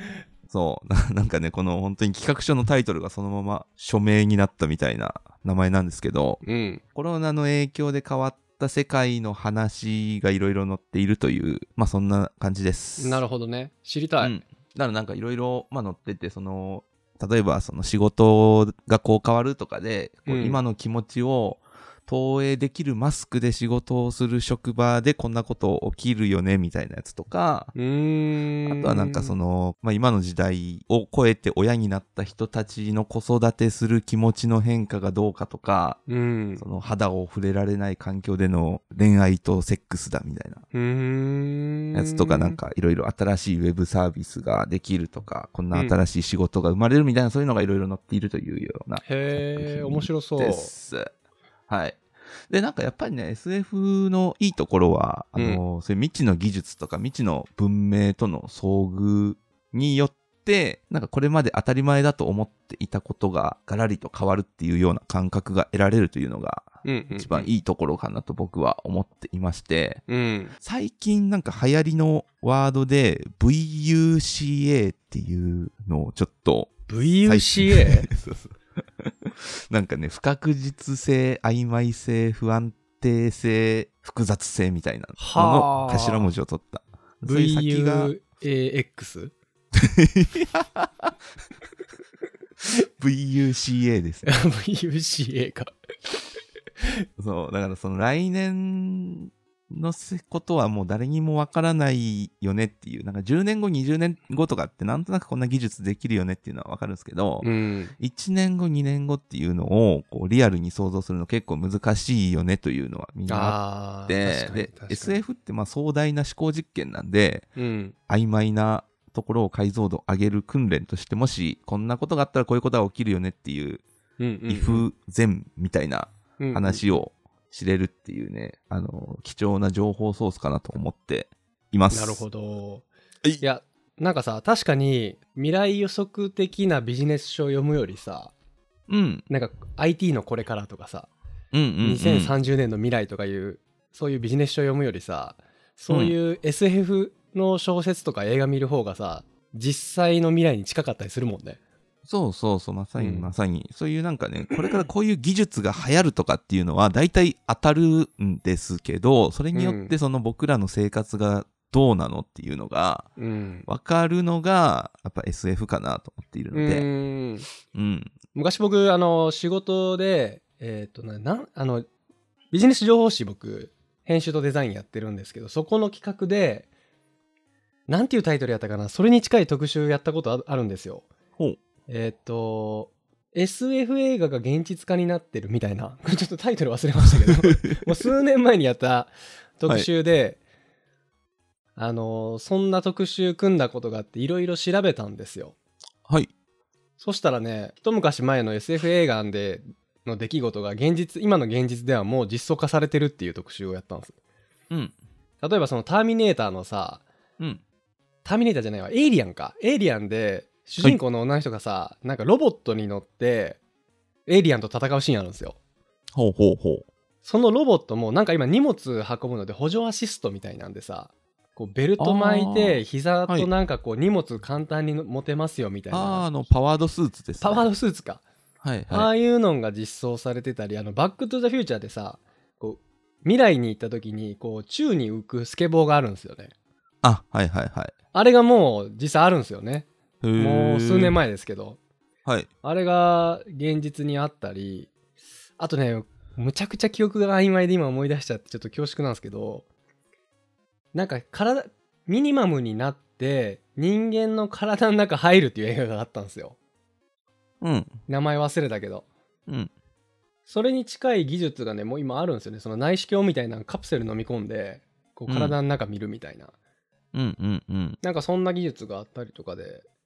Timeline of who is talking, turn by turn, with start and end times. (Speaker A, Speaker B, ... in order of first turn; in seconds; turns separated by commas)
Speaker A: 0.5-6.4, Speaker B: 6.4-6.8, Speaker A: 6.9-13.2, Speaker B: 13.0-14.3, Speaker A: 14.2-27.7, Speaker B: 20.3-20.6, Speaker B: 27.7-29.3, Speaker A: 28.7-36.0, Speaker B: 36.1-36.6, Speaker A: 36.6-40.6, Speaker B: 40.7-42.5, Speaker A: 41.9-51.1, Speaker B: 45.7-46.0, Speaker B: 49.0-50.7, Speaker A: 51.7-70.0, Speaker B: 55.4-55.6, Speaker B: 66.8-67.5, Speaker B: 70.1-70.5, Speaker A: 70.6-88.1, Speaker B: 76.9-78.1, Speaker B: 85.2-86.3, Speaker B: 87.2-89.3, Speaker A: 89.8-91.1, Speaker A: 93.0-94.3, Speaker B: 94.2-95.7, Speaker A: 97.2-107.5, Speaker B: 107.4-107.9, Speaker A: 108.0-117.5, Speaker B: 113.3-115.2, Speaker B: 117.5-117.9, Speaker A: 118.1-123.8, Speaker B: 124.2-124.8, Speaker A: 124.5-132.2, Speaker B: 126.4-127.0, Speaker B: 131.9-132.9, Speaker B: 133.4-138.3, Speaker A: 138.9-139.2, Speaker B: 139.3-141.1, Speaker A: 141.5-142.3, Speaker B: 141.8-151.6, Speaker A: 145.9-146.1, Speaker A: 152.1-163.1, Speaker B: 153.0-153.3, Speaker B: 159.5-159.9, Speaker B: 163.2-163.7, Speaker A: 163.7-166.9, Speaker B: 166.5-167.5, Speaker A: 167.7-168.2, Speaker B: 168.3-171.8, Speaker B: 172.5-176.7, Speaker B: 177.9-181.1, Speaker B: 181.9-190.4, Speaker A: 187.3-187.8, Speaker B: 191.8-195.5, Speaker B: 197.0-204.1, Speaker B: 205.4-207.0, Speaker B: 208.2-213.6, Speaker B: 214.3-215.6, Speaker A: 216.1-216.9, Speaker B: 217.2-226.4, Speaker A: 222.0-223.5, Speaker A: 225.9-227.7, Speaker B: 227.4-228.2, Speaker A: 228.6-229.1, Speaker B: 228.9-236.5, Speaker A: 237.0-237.9, Speaker B: 238.1-241.8, Speaker A: 240.2-241.2, Speaker B: 242.6-244.9, Speaker B: 245.6-249.7, Speaker B: 250.9-256.6, Speaker A: 257.6-257.9, Speaker B: 258.1-259.1, Speaker B: 260.5-266.5, Speaker A: 265.3-265.6, Speaker A: 267.1-268.0, Speaker B: 268.0-269.8